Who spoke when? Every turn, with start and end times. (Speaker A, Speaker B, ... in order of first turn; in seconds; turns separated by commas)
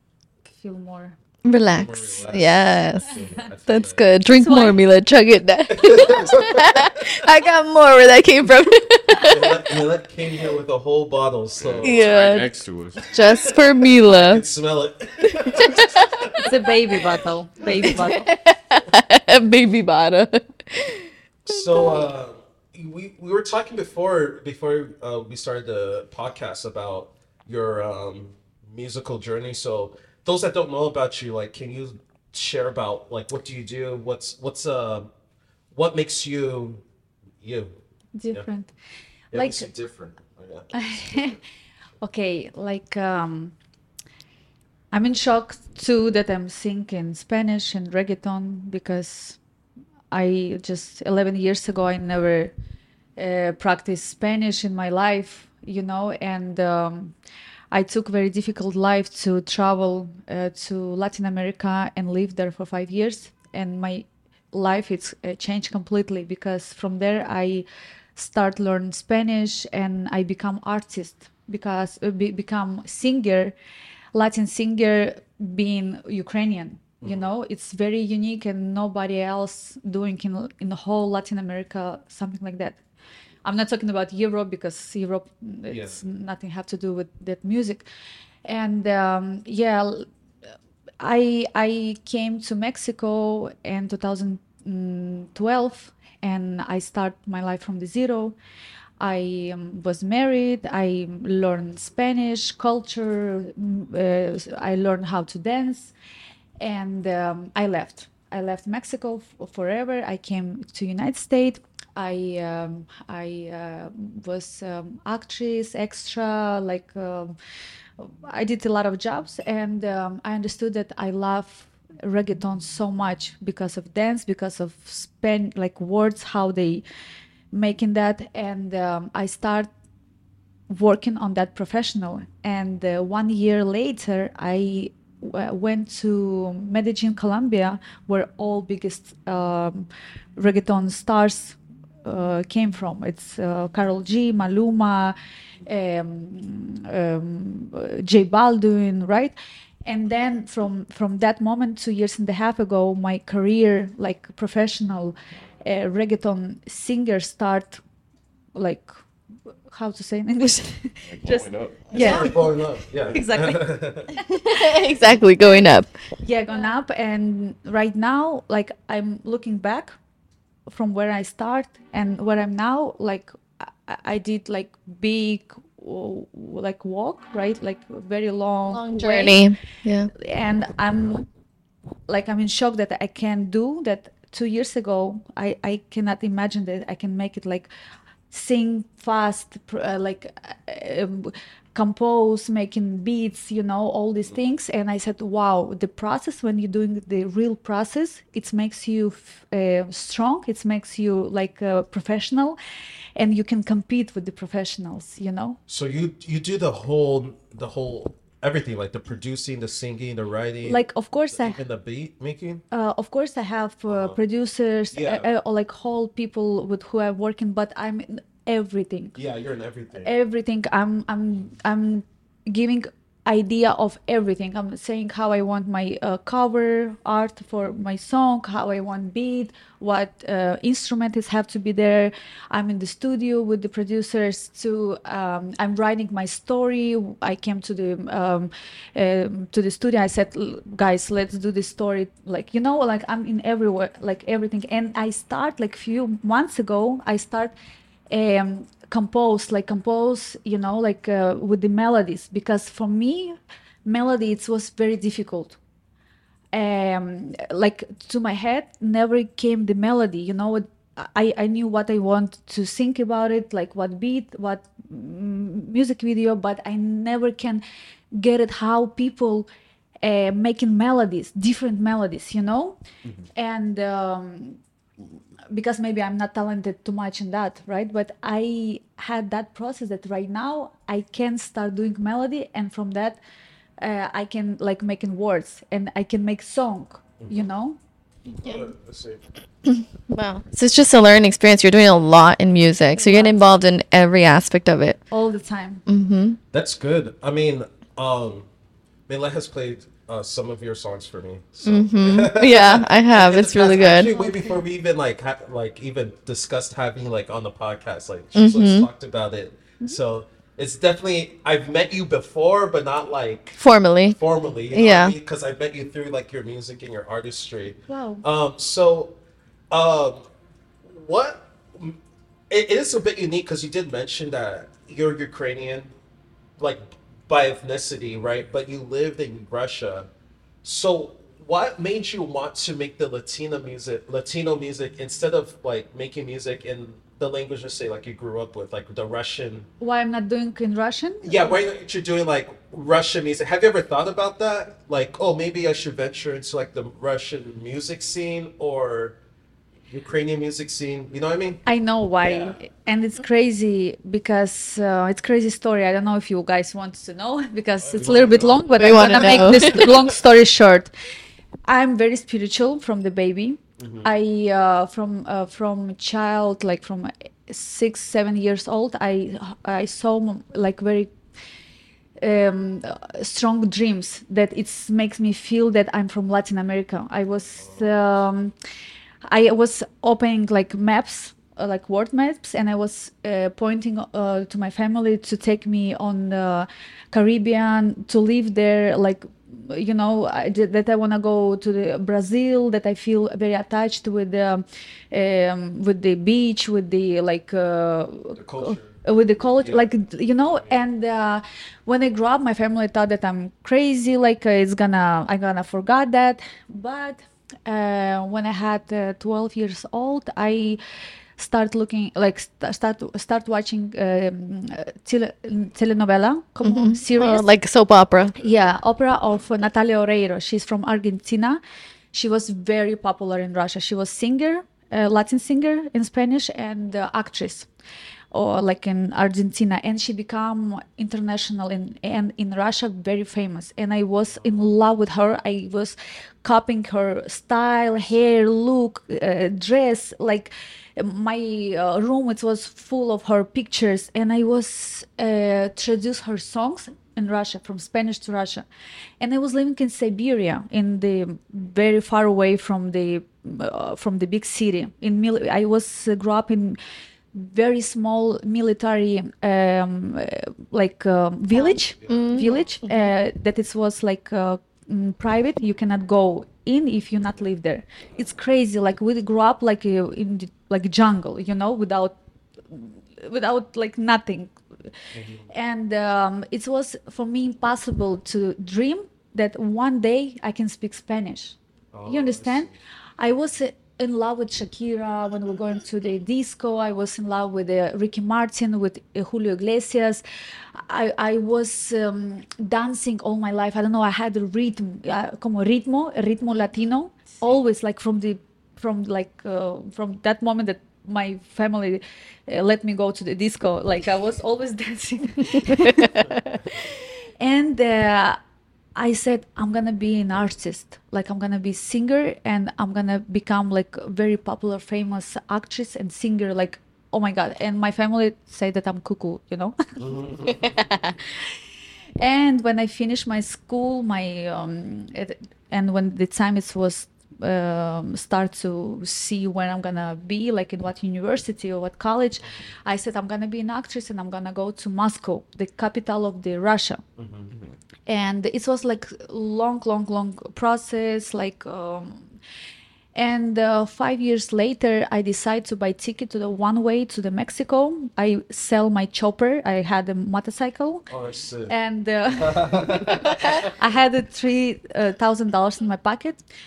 Speaker A: 0.4-1.1, Speaker B: 1.4-9.6, Speaker C: 1.7-4.1, Speaker A: 4.2-4.8, Speaker C: 5.7-7.0, Speaker C: 9.2-12.1, Speaker D: 11.6-13.0, Speaker B: 11.8-12.5, Speaker C: 13.1-16.5, Speaker B: 13.1-14.4, Speaker B: 15.2-16.4, Speaker A: 16.4-18.3, Speaker C: 17.6-18.0, Speaker B: 17.8-22.1, Speaker C: 21.4-35.1, Speaker C: 35.7-36.8, Speaker C: 37.4-37.7, Speaker A: 38.1-38.7, Speaker A: 39.3-39.7, Speaker C: 39.3-41.4, Speaker A: 40.7-41.4, Speaker A: 42.0-43.5, Speaker A: 44.9-49.4, Speaker A: 50.1-52.5, Speaker A: 53.2-57.1, Speaker A: 57.7-67.6, Speaker A: 68.2-73.5, Speaker A: 74.1-82.8, Speaker C: 77.0-77.3, Speaker A: 83.4-87.8, Speaker C: 85.7-86.0, Speaker A: 88.4-90.1, Speaker A: 91.0-98.3, Speaker A: 99.0-105.9, Speaker A: 106.6-117.3, Speaker A: 118.0-126.8, Speaker A: 127.5-129.7, Speaker A: 130.7-145.1, Speaker A: 145.7-157.8, Speaker A: 158.5-158.9, Speaker A: 159.7-162.5, Speaker D: 161.1-162.3, Speaker C: 161.9-164.1, Speaker B: 162.0-162.3, Speaker A: 163.1-163.6, Speaker B: 164.3-165.9, Speaker A: 166.2-169.9, Speaker A: 170.7-179.5, Speaker B: 178.7-180.1, Speaker A: 180.1-181.3, Speaker A: 182.1-187.7, Speaker A: 188.3-202.6, Speaker A: 203.2-205.6, Speaker C: 205.7-210.8, Speaker A: 210.6-211.6, Speaker C: 211.3-212.6, Speaker A: 212.7-219.1, Speaker C: 213.9-214.2, Speaker C: 214.9-215.3, Speaker C: 219.1-220.1, Speaker A: 220.0-247.5, Speaker A: 248.1-255.6, Speaker A: 256.5-269.5, Speaker A: 270.0-272.8, Speaker A: 273.3-274.6, Speaker A: 275.5-283.2, Speaker A: 283.8-287.8, Speaker C: 288.4-289.2, Speaker B: 289.6-295.0, Speaker A: 292.9-293.4, Speaker A: 295.1-295.8, Speaker B: 295.9-296.4, Speaker C: 296.5-298.5, Speaker C: 299.1-313.6, Speaker B: 301.6-304.1, Speaker A: 304.0-304.5, Speaker B: 308.3-308.9, Speaker B: 313.6-314.2, Speaker C: 314.1-319.1, Speaker B: 314.7-315.1, Speaker A: 317.9-318.2, Speaker C: 319.7-320.3, Speaker C: 320.8-322.0, Speaker C: 322.5-325.9, Speaker C: 326.6-330.1, Speaker C: 330.6-339.7, Speaker A: 339.8-341.5, Speaker C: 341.2-349.1, Speaker C: 349.9-351.6, Speaker A: 351.6-360.9, Speaker C: 352.2-352.6, Speaker C: 357.8-359.9, Speaker B: 358.8-360.0, Speaker A: 361.6-371.1, Speaker C: 363.8-364.1, Speaker A: 372.2-378.5, Speaker C: 377.6-378.0, Speaker A: 379.3-410.8, Speaker C: 398.3-399.0, Speaker C: 399.6-399.9, Speaker A: 411.4-417.4, Speaker B: 416.6-418.4, Speaker A: 418.4-421.6, Speaker A: 422.1-427.7, Speaker A: 428.3-448.6, Speaker A: 449.2-456.8, Speaker A: 457.3-472.2, Speaker B: 461.6-463.1, Speaker C: 462.0-462.6, Speaker A: 472.7-474.5, Speaker C: 475.1-475.4, Speaker A: 475.5-490.2, Speaker C: 481.9-482.7, Speaker A: 490.7-506.2, Speaker B: 505.7-506.2, Speaker A: 506.7-508.4, Speaker A: 508.9-519.8, Speaker C: 520.0-520.9, Speaker A: 522.2-537.0, Speaker C: 537.2-537.5, Speaker A: 538.1-542.3, Speaker A: 543.1-551.0, Speaker C: 551.1-551.7, Speaker A: 551.7-556.4, Speaker C: 552.3-553.7